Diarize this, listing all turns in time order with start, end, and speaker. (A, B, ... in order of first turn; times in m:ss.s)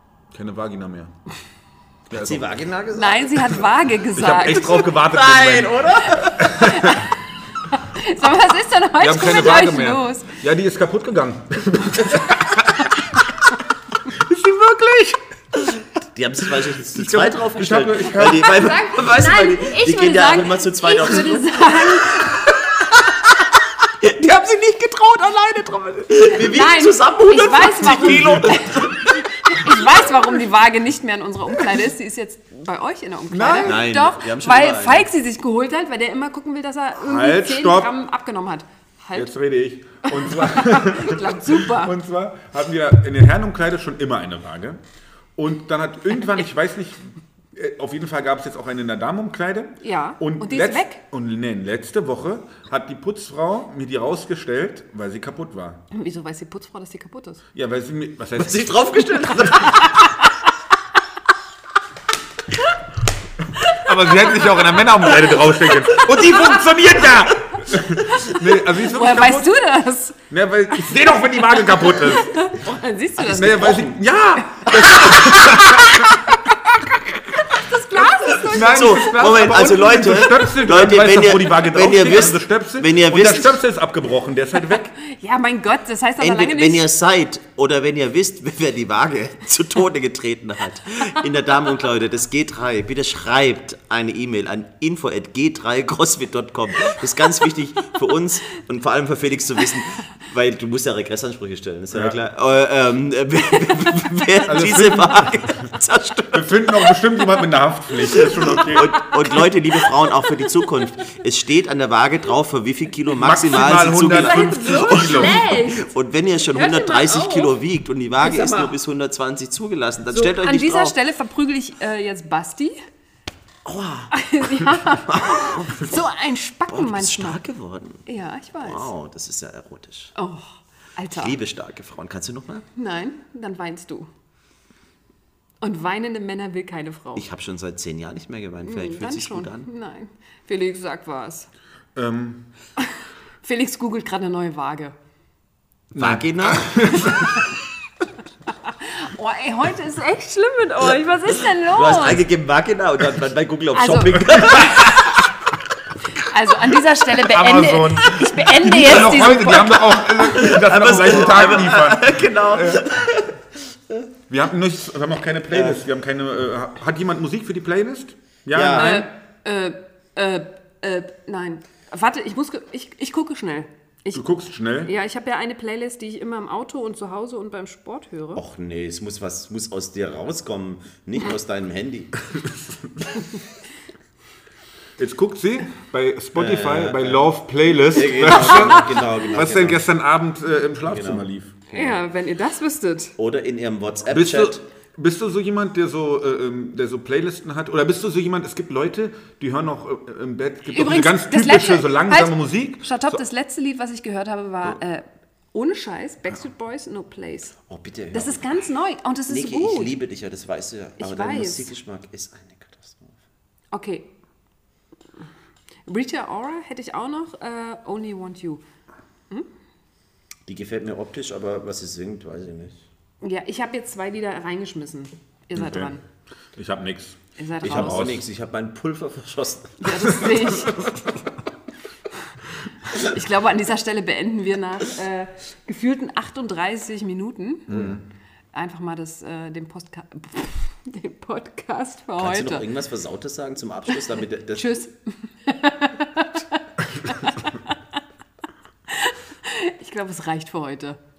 0:00.3-0:01.1 A
0:02.1-0:02.6 A
0:02.1-0:03.6 B
0:02.9-0:04.9 C
0:04.1-0:07.1 A
0:04.9-0:06.6 B
0:06.2-0:10.4 C
0:09.0-0:13.1 A
0:14.0-0:15.8 A
0:16.1-0:22.8 B
0:16.9-0:18.7 A
0:18.3-0:22.7 C
0:23.9-0:30.1 B
0:26.3-0:39.3 C
0:28.0-0:28.4 A
0:33.3-0:33.8 A
0:33.6-0:35.1 B
0:37.0-0:37.9 A
0:39.1-0:44.8 A
0:40.0-0:41.9 C
0:45.4-0:55.8 A
0:49.8-0:51.0 C
0:55.9-0:57.4 C
0:57.5-0:59.5 A
0:58.4-1:00.1 B
0:59.5-1:00.2 C
1:03.6-1:04.7 C
1:03.7-1:09.5 A
1:08.0-1:10.2 C
1:10.3-1:12.4 A
1:11.5-1:13.9 C
1:13.2-1:16.1 A
1:13.4-1:13.9 B
1:14.6-1:16.1 C
1:17.3-1:19.8 C
1:18.3-1:24.9 A
1:18.5-1:23.6 B
1:25.0-1:26.8 C
1:26.2-1:47.0 B
1:44.5-1:45.7 A
1:46.3-1:49.2 A
1:48.1-2:00.9 B
1:53.1-1:55.4 A
1:54.0-1:55.9 C
1:56.4-1:57.5 C
1:58.2-1:58.8 C
2:00.1-2:02.8 C
2:03.6-2:06.0 B
2:04.1-2:07.4 C
2:06.7-2:08.0 B
2:08.0-2:08.9 C
2:08.6-2:10.1 B
2:10.1-2:11.4 C
2:11.1-2:12.6 B
2:12.8-2:14.1 C
2:15.6-2:17.3 C
2:17.2-2:19.7 B
2:18.6-2:21.5 C
2:22.0-2:22.4 A
2:22.8-2:24.9 C
2:25.9-2:27.4 A
2:25.9-2:27.0 B
2:28.6-2:32.2 C
2:31.7-2:35.2 B
2:33.7-2:34.9 C
2:36.1-2:39.8 C
2:37.1-2:42.9 A
2:40.1-2:44.1 B
2:44.3-2:49.0 A
2:45.5-2:45.8 B
2:48.5-2:49.0 B
2:48.8-2:54.2 C
2:54.1-2:54.9 A
2:54.8-2:58.4 C
2:58.4-3:02.1 B
3:02.3-3:02.7 A
3:05.0-3:11.5 A
3:06.3-3:07.2 B
3:07.8-3:09.8 B
3:10.8-3:12.1 B
3:11.7-3:13.1 C
3:13.2-3:14.6 B
3:14.1-3:23.2 A
3:20.7-3:27.6 C
3:27.7-3:28.5 B
3:28.1-3:29.9 C
3:29.3-3:33.2 B
3:31.0-3:31.7 C
3:33.7-3:34.1 C
3:35.8-3:38.6 C
3:40.5-3:42.8 B
3:43.2-3:46.0 C
3:45.6-3:45.9 A
3:46.5-3:48.2 A
3:47.4-3:48.1 C
3:47.6-3:50.1 B
3:49.8-3:50.9 C
3:52.9-3:57.8 C
3:57.7-3:58.0 A
3:57.7-3:58.0 B
3:58.5-4:02.6 C
4:02.2-4:04.8 B
4:04.5-4:07.8 C
4:08.9-4:11.0 C